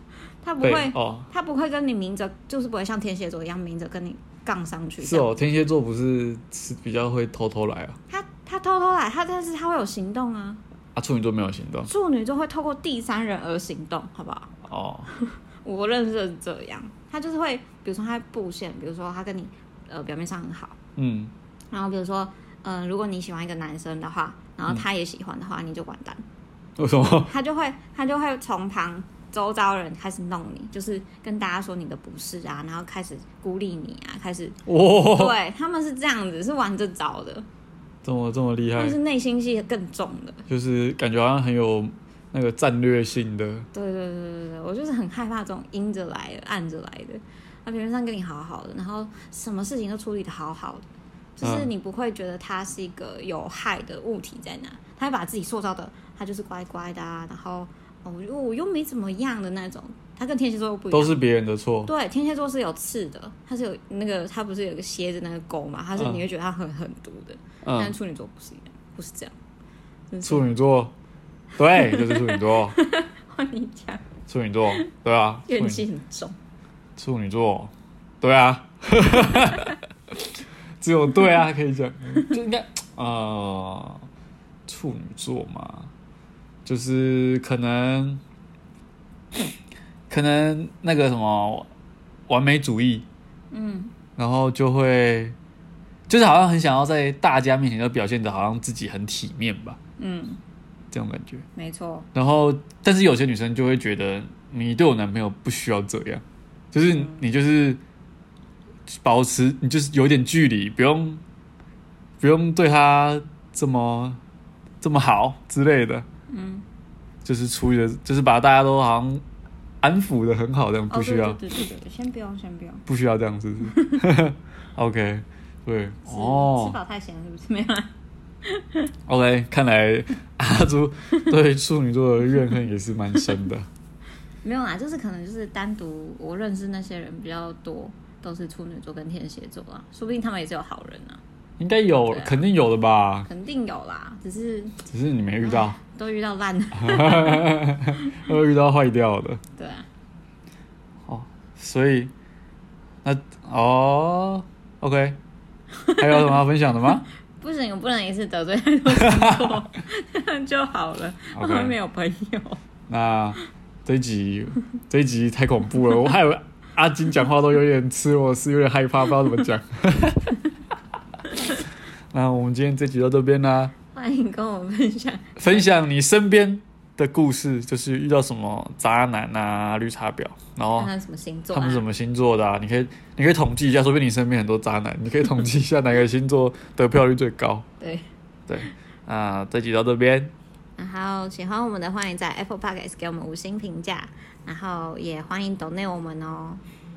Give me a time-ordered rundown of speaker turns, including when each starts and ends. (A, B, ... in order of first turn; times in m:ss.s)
0:00.4-0:05.3 A
0:00.6-0:01.3 B
0:05.0-0:08.0 B
0:08.1-0:10.6 A
0:11.0-0:11.9 B
0:11.9-0:14.5 A
0:14.7-0:15.1 B
0:15.1-0:20.8 A
0:21.0-0:21.3 B
0:21.7-0:26.2 A
0:26.8-0:27.3 B
0:27.3-0:37.5 A
0:34.7-0:35.4 B
0:38.0-0:39.0 B
0:38.8-0:40.5 A
0:40.5-0:43.7 B
0:43.7-0:50.9 A
0:51.4-1:01.2 A
0:51.4-0:51.7 B
1:00.9-1:01.9 B
1:01.9-1:09.3 A
1:06.0-1:06.2 B
1:07.6-1:07.9 B
1:10.1-1:10.5 A
1:10.2-1:10.9 B
1:11.6-1:12.8 B
1:11.6-1:14.1 A
1:14.3-1:15.8 B
1:15.5-1:16.4 A
1:17.0-1:19.8 B
1:20.8-1:24.1 B
1:21.1-1:21.4 A
1:24.7-1:25.9 B
1:26.7-1:28.2 B
1:30.1-1:31.7 B
1:32.3-1:33.1 B
1:33.5-1:33.9 A
1:34.2-1:35.4 B
1:36.1-1:39.8 B
1:40.0-1:40.4 A
1:40.9-1:41.4 B
1:41.6-1:42.1 A
1:42.1-1:47.8 B
1:46.8-1:47.2 A
1:48.9-1:51.2 B
1:52.2-1:54.2 B
1:54.8-1:56.1 B
1:56.3-1:56.6 A
1:57.2-1:59.2 B
1:59.8-2:01.4 B
2:00.9-2:02.9 A
2:02.9-2:06.8 B
2:03.6-2:04.0 A
2:06.1-2:07.9 A
2:08.4-2:08.9 A
2:09.1-2:13.7 B
2:14.4-2:21.2 A
2:21.6-2:23.3 B
2:22.1-2:22.5 A
2:23.3-2:24.8 A
2:24.9-2:25.8 B
2:25.4-2:27.6 A
2:26.8-2:29.4 B
2:29.6-2:29.9 A
2:31.1-2:32.1 B
2:33.0-2:35.2 B
2:35.8-2:36.4 A
2:36.0-2:37.1 B
2:37.4-2:42.6 A
2:38.9-2:39.6 B
2:41.4-2:41.8 B
2:42.9-2:50.4 B
2:52.1-2:53.8 B
2:53.9-2:55.7 A
2:55.4-3:00.9 B
3:00.8-3:01.9 A
3:01.5-3:07.7 B
3:07.8-3:08.1 A
3:08.5-3:10.3 B
3:10.8-3:16.6 A